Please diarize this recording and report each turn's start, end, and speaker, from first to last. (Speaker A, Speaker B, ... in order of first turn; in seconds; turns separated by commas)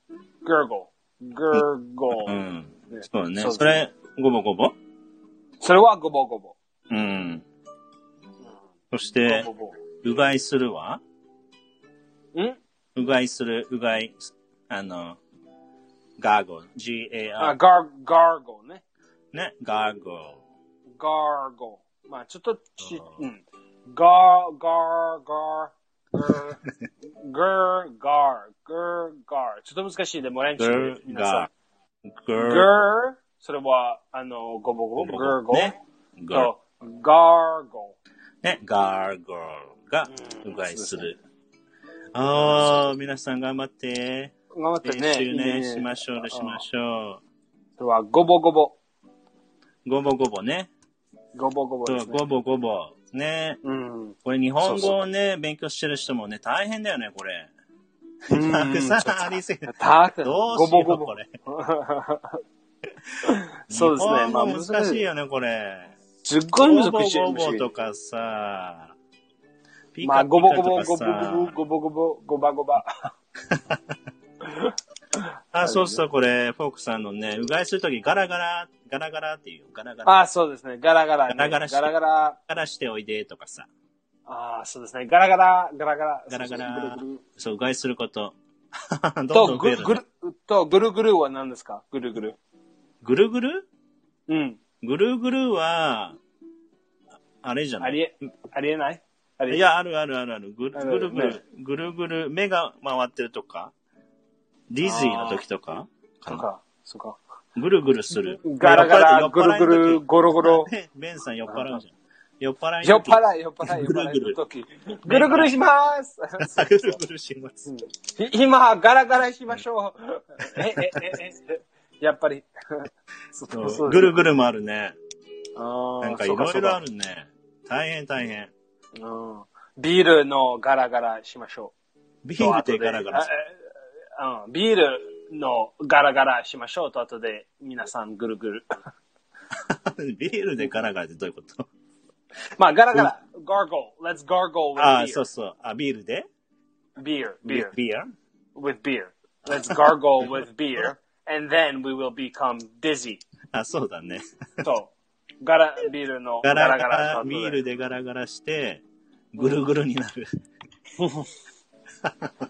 Speaker A: 0.4-2.4, Speaker B: 1.5-4.7, Speaker A: 2.9-3.8, Speaker A: 5.6-6.5, Speaker B: 6.9-7.4, Speaker B: 8.9-9.5, Speaker A: 9.2-9.8, Speaker B: 10.0-11.0, Speaker B: 12.9-15.2, Speaker B: 16.2-17.6, Speaker A: 17.4-18.8, Speaker B: 19.3-20.4, Speaker A: 21.0-26.6, Speaker B: 22.8-23.2, Speaker A: 27.2-31.5, Speaker B: 30.6-31.5, Speaker B: 32.1-32.8, Speaker A: 32.4-35.8, Speaker B: 35.0-36.5, Speaker A: 36.3-38.0, Speaker B: 38.4-41.2, Speaker A: 40.1-41.1, Speaker B: 42.1-47.2, Speaker A: 42.4-42.9, Speaker A: 44.5-46.6, Speaker A: 47.8-48.8, Speaker B: 49.8-50.7, Speaker A: 51.3-52.2, Speaker B: 51.9-53.6, Speaker A: 53.6-55.0, Speaker B: 54.2-57.5, Speaker B: 58.3-59.7, Speaker A: 58.3-62.4, Speaker B: 60.2-61.3, Speaker A: 63.2-65.0, Speaker B: 63.2-65.9, Speaker A: 66.2-67.7, Speaker B: 66.6-68.9, Speaker B: 69.9-71.5, Speaker A: 70.0-73.1, Speaker B: 73.5-73.9, Speaker A: 74.4-76.0, Speaker B: 75.5-80.2, Speaker A: 80.0-82.4, Speaker B: 81.3-81.9, Speaker B: 82.5-83.7, Speaker A: 84.3-87.2, Speaker B: 86.3-90.0, Speaker A: 89.3-92.4, Speaker B: 93.0-93.7, Speaker A: 94.3-94.6, Speaker B: 94.8-96.2, Speaker B: 97.4-98.0, Speaker A: 97.8-99.6, Speaker B: 99.5-103.7, Speaker A: 100.7-101.4, Speaker B: 104.7-106.5, Speaker A: 104.8-105.4, Speaker A: 106.3-107.2, Speaker B: 107.5-114.4, Speaker A: 108.1-110.7, Speaker A: 111.5-111.8, Speaker A: 112.8-117.0, Speaker B: 115.1-115.5, Speaker B: 116.4-117.7, Speaker A: 117.7-124.2, Speaker B: 120.4-121.1, Speaker B: 123.5-125.0, Speaker A: 125.5-126.8, Speaker B: 126.0-128.5, Speaker A: 129.0-131.7, Speaker B: 132.2-133.3, Speaker A: 132.4-133.6, Speaker A: 134.2-138.6, Speaker B: 139.6-141.6, Speaker A: 142.6-145.2, Speaker B: 144.8-146.2, Speaker A: 147.0-147.7, Speaker B: 147.4-148.1, Speaker A: 148.5-153.2, Speaker B: 153.5-154.7, Speaker A: 154.6-157.6, Speaker B: 156.4-158.8, Speaker B: 159.3-160.2, Speaker A: 161.0-161.3, Speaker B: 162.0-162.3